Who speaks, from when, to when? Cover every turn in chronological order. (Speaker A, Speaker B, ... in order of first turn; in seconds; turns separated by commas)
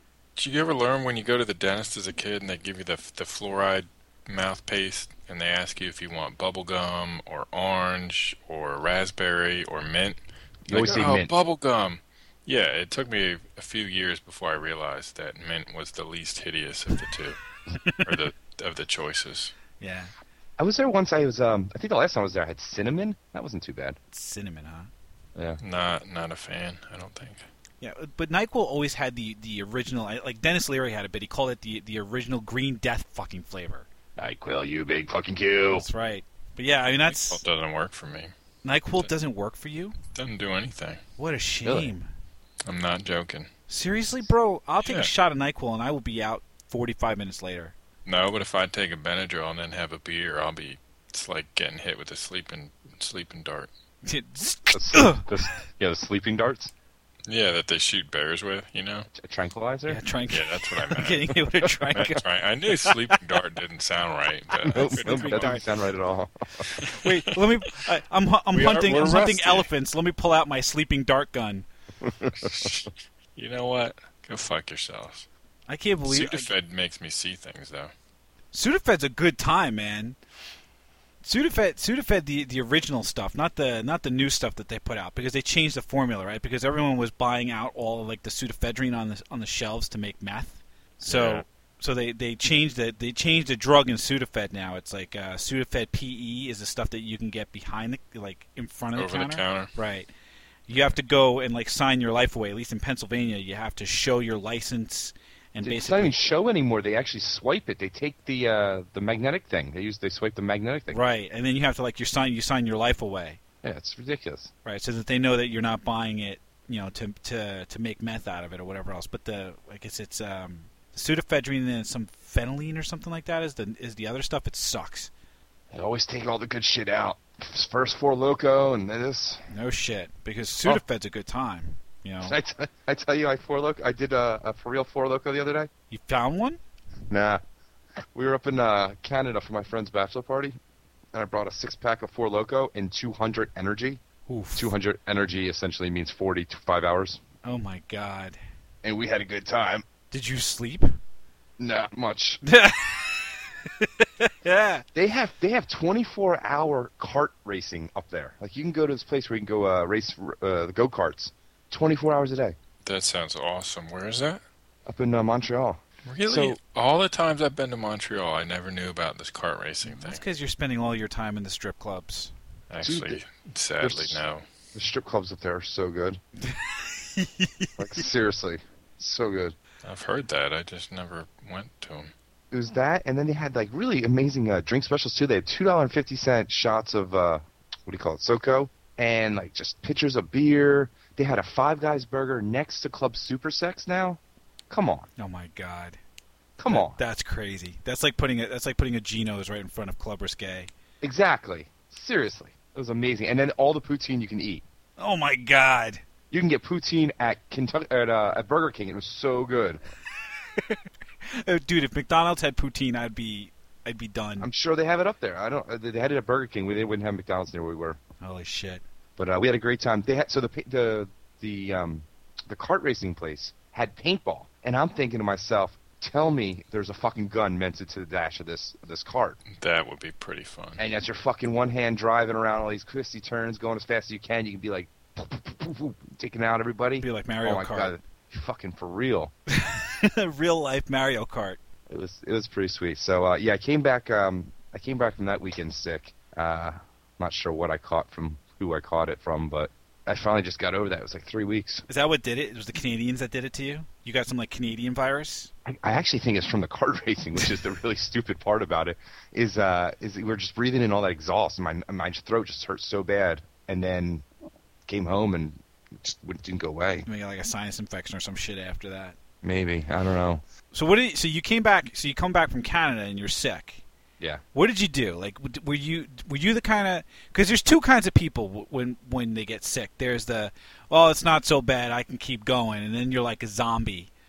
Speaker A: 0.4-17.4, Speaker B: 10.7-11.3, Speaker C: 17.8-18.1, Speaker A: 18.0-19.6, Speaker C: 19.8-20.1, Speaker B: 20.6-24.0, Speaker C: 24.1-24.9, Speaker A: 25.6-27.5, Speaker C: 27.8-33.9, Speaker B: 34.2-35.9, Speaker C: 35.7-37.4, Speaker A: 37.1-38.3, Speaker C: 38.6-40.0, Speaker A: 40.1-41.0, Speaker C: 41.2-42.1, Speaker B: 41.6-41.9, Speaker A: 42.7-43.5, Speaker C: 43.7-47.8, Speaker A: 44.8-45.1, Speaker A: 48.1-53.7, Speaker C: 54.0-55.5, Speaker B: 54.7-56.7, Speaker A: 57.3-59.1, Speaker B: 59.1-60.0, Speaker C: 59.9-63.2, Speaker A: 60.3-61.4, Speaker A: 61.9-65.6, Speaker C: 64.5-65.6, Speaker B: 64.7-66.7, Speaker A: 66.8-67.3, Speaker C: 67.0-71.7, Speaker A: 68.5-69.7, Speaker B: 72.1-72.5, Speaker A: 72.3-75.3, Speaker C: 75.7-76.5, Speaker A: 76.0-77.9, Speaker C: 78.5-80.2, Speaker C: 81.2-100.1, Speaker A: 91.1-91.5, Speaker A: 99.0-99.7, Speaker C: 100.7-106.2, Speaker B: 105.6-111.0, Speaker C: 110.9-113.4, Speaker B: 113.6-114.5, Speaker C: 114.7-125.1, Speaker B: 125.7-129.4, Speaker C: 129.5-132.3, Speaker B: 132.2-135.7, Speaker C: 135.9-136.6, Speaker B: 137.1-137.4, Speaker B: 138.1-140.6, Speaker B: 141.1-144.0, Speaker C: 144.3-144.7, Speaker B: 144.6-147.2, Speaker C: 147.4-148.4, Speaker B: 148.8-149.8, Speaker C: 150.1-150.9, Speaker B: 151.6-152.4, Speaker C: 152.4-154.8, Speaker B: 154.9-162.6, Speaker A: 162.8-164.4, Speaker B: 164.9-166.6, Speaker A: 166.1-170.2, Speaker C: 169.8-172.3, Speaker A: 172.7-174.4, Speaker B: 172.8-173.2, Speaker B: 173.8-174.2, Speaker B: 174.7-176.2, Speaker C: 176.4-177.7, Speaker B: 177.8-179.6, Speaker A: 179.8-182.1, Speaker B: 182.5-195.1, Speaker C: 195.2-196.0, Speaker B: 196.6-197.0, Speaker C: 196.7-200.7, Speaker B: 201.0-204.7, Speaker C: 205.0-206.0, Speaker B: 206.3-209.8, Speaker C: 210.6-214.5, Speaker B: 214.4-218.0, Speaker C: 218.2-218.8, Speaker B: 219.2-229.4, Speaker A: 229.5-230.8, Speaker B: 230.8-239.3, Speaker C: 237.0-238.0, Speaker C: 239.5-241.6, Speaker B: 241.9-251.8, Speaker C: 251.9-255.5, Speaker B: 255.7-264.2, Speaker B: 264.9-267.1, Speaker C: 267.1-269.2, Speaker B: 269.4-270.4, Speaker C: 270.7-273.8, Speaker C: 274.5-284.1